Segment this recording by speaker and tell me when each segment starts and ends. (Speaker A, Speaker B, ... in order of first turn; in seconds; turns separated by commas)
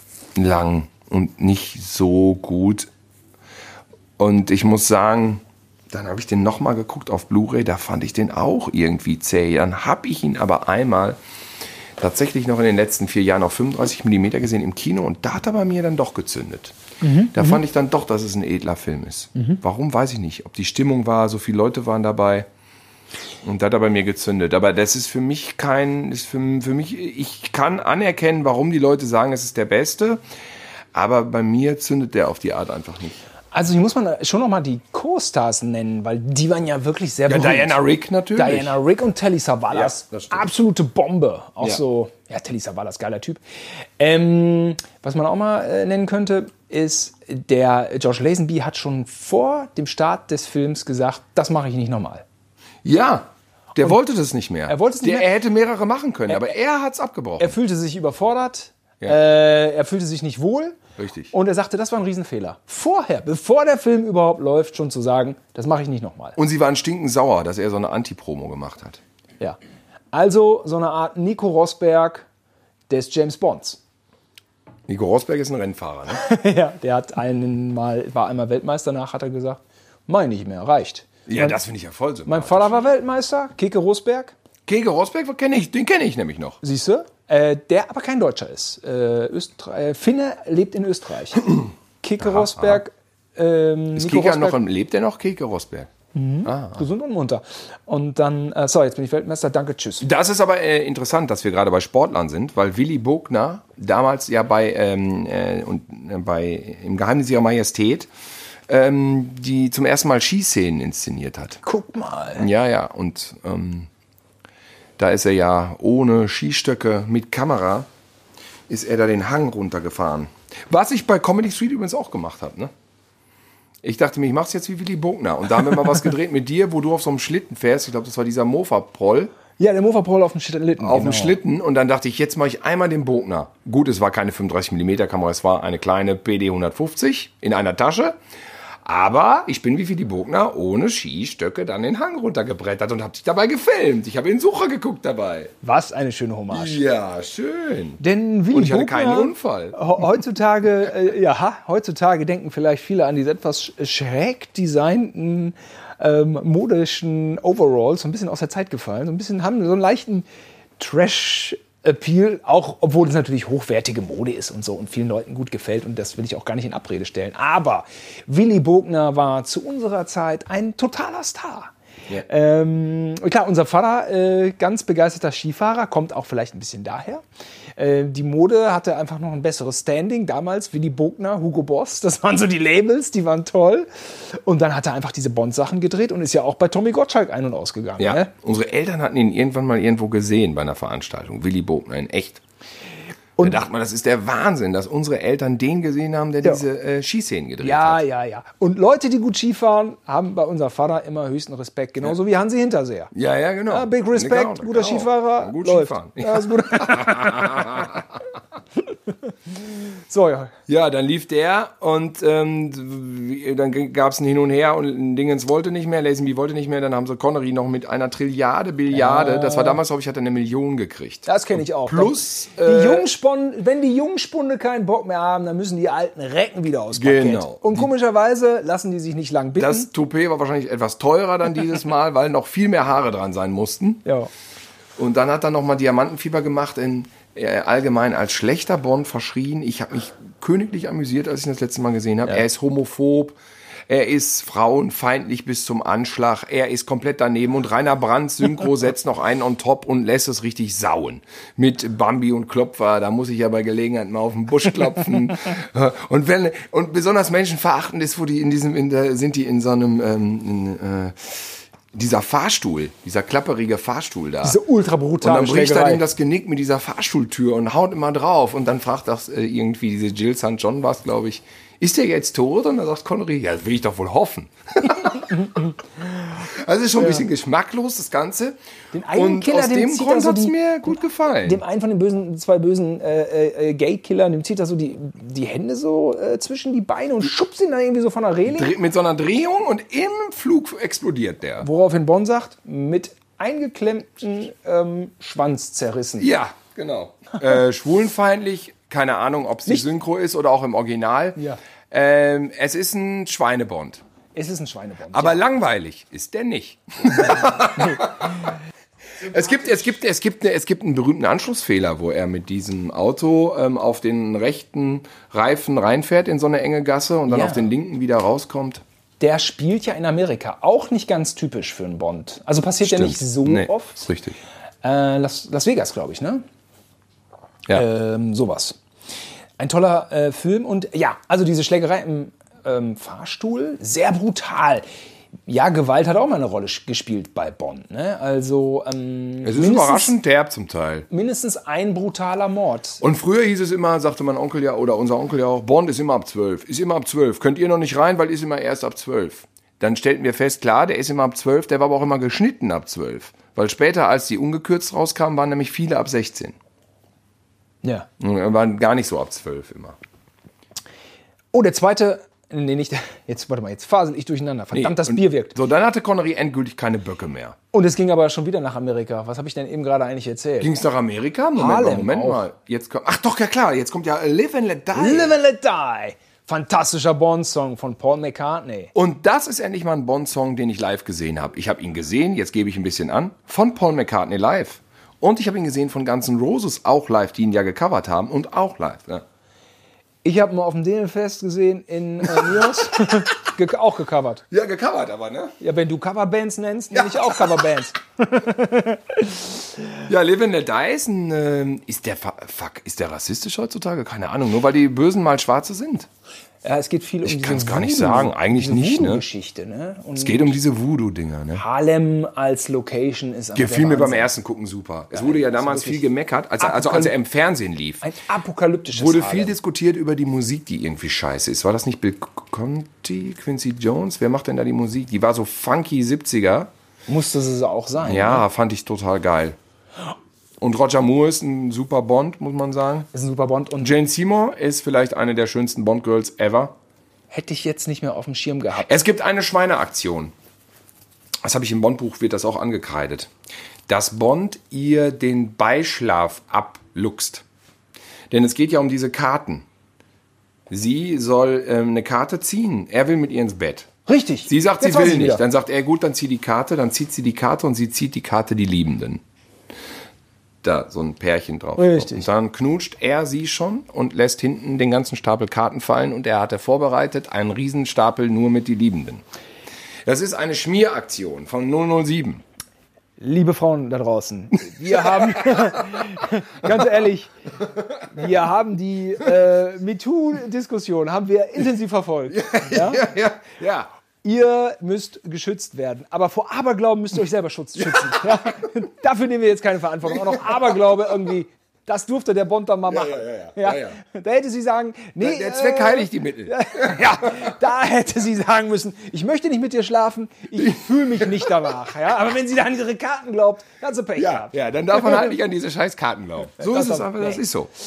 Speaker A: 0.3-2.9, Speaker A: 4.2-11.2, Speaker A: 12.0-16.8, Speaker B: 17.0-17.6, Speaker A: 17.3-22.5, Speaker A: 23.4-30.2, Speaker A: 30.9-33.2, Speaker B: 33.5-43.4, Speaker A: 37.3-38.8, Speaker A: 39.7-40.5, Speaker B: 44.0-52.2, Speaker A: 52.8-57.5, Speaker B: 54.7-55.3, Speaker B: 57.4-60.8, Speaker A: 61.0-61.3, Speaker B: 61.3-66.3, Speaker A: 66.3-69.0, Speaker B: 70.1-72.2, Speaker B: 72.9-73.8, Speaker A: 74.9-76.2, Speaker B: 76.1-81.6, Speaker A: 81.3-82.8, Speaker B: 82.2-84.3, Speaker A: 84.7-86.6, Speaker B: 86.6-94.6, Speaker A: 92.2-92.8, Speaker A: 93.9-95.9, Speaker B: 96.1-100.0, Speaker A: 96.4-96.8, Speaker A: 100.0-108.1, Speaker A: 108.7-111.6, Speaker B: 111.6-112.5, Speaker A: 112.3-113.9, Speaker A: 115.0-117.9, Speaker A: 118.7-122.7, Speaker A: 123.8-129.3, Speaker B: 129.6-131.4, Speaker A: 130.8-138.2, Speaker A: 138.8-145.5, Speaker B: 145.6-146.8, Speaker A: 146.5-149.8, Speaker B: 148.0-160.2, Speaker B: 160.8-177.2, Speaker B: 177.8-188.3, Speaker A: 188.0-192.4, Speaker B: 193.4-193.6, Speaker A: 193.4-198.0, Speaker B: 197.6-203.1, Speaker A: 203.1-208.2, Speaker B: 203.7-207.9, Speaker B: 209.5-210.5, Speaker A: 210.7-223.1, Speaker B: 218.9-219.8, Speaker B: 221.2-229.9, Speaker A: 226.9-227.9, Speaker A: 229.6-234.0, Speaker A: 235.0-243.3, Speaker A: 243.9-264.6, Speaker B: 264.4-266.0, Speaker A: 265.2-278.6, Speaker B: 277.0-277.2, Speaker B: 278.9-288.7, Speaker A: 279.1-281.6, Speaker A: 288.5-291.7, Speaker B: 291.6-296.3, Speaker A: 296.2-301.4, Speaker A: 301.9-304.0, Speaker B: 304.3-305.4, Speaker A: 305.1-308.4, Speaker A: 309.2-318.8, Speaker B: 317.3-317.7, Speaker B: 319.2-324.1, Speaker A: 322.8-324.4, Speaker B: 324.8-326.4, Speaker B: 327.7-328.8, Speaker B: 329.6-334.9, Speaker B: 335.5-340.1, Speaker A: 339.4-341.1, Speaker B: 341.1-343.0, Speaker A: 343.0-356.5, Speaker B: 357.8-358.1, Speaker A: 358.2-360.0, Speaker B: 361.5-365.5, Speaker A: 364.7-367.6, Speaker B: 367.7-370.7, Speaker A: 370.6-375.3, Speaker B: 371.5-372.4, Speaker B: 374.9-378.9, Speaker A: 378.9-389.2, Speaker B: 390.2-394.4, Speaker A: 394.5-395.5, Speaker B: 395.6-399.7, Speaker A: 397.0-397.4, Speaker A: 400.0-406.1, Speaker B: 406.6-410.6, Speaker A: 407.2-409.2, Speaker A: 410.2-411.6, Speaker B: 411.5-414.3, Speaker A: 413.5-418.0, Speaker B: 415.1-416.1, Speaker B: 416.6-417.1, Speaker B: 418.0-419.6, Speaker A: 418.9-426.7, Speaker B: 427.1-428.4, Speaker A: 428.0-429.6, Speaker A: 430.6-433.1, Speaker B: 433.1-433.9, Speaker A: 433.8-436.7, Speaker B: 437.3-438.9, Speaker A: 438.8-440.3, Speaker A: 441.4-443.3, Speaker A: 443.9-447.4, Speaker A: 448.3-449.6, Speaker A: 450.7-453.9, Speaker B: 454.1-455.4, Speaker A: 454.4-459.2, Speaker A: 460.6-469.2, Speaker B: 461.8-462.3, Speaker A: 470.1-472.4, Speaker B: 473.2-477.3, Speaker A: 475.0-475.8, Speaker B: 478.1-483.1, Speaker A: 482.3-483.9, Speaker B: 484.2-505.3, Speaker A: 492.9-494.0, Speaker A: 495.2-497.5, Speaker A: 500.6-501.7, Speaker A: 504.1-507.7, Speaker B: 506.6-507.4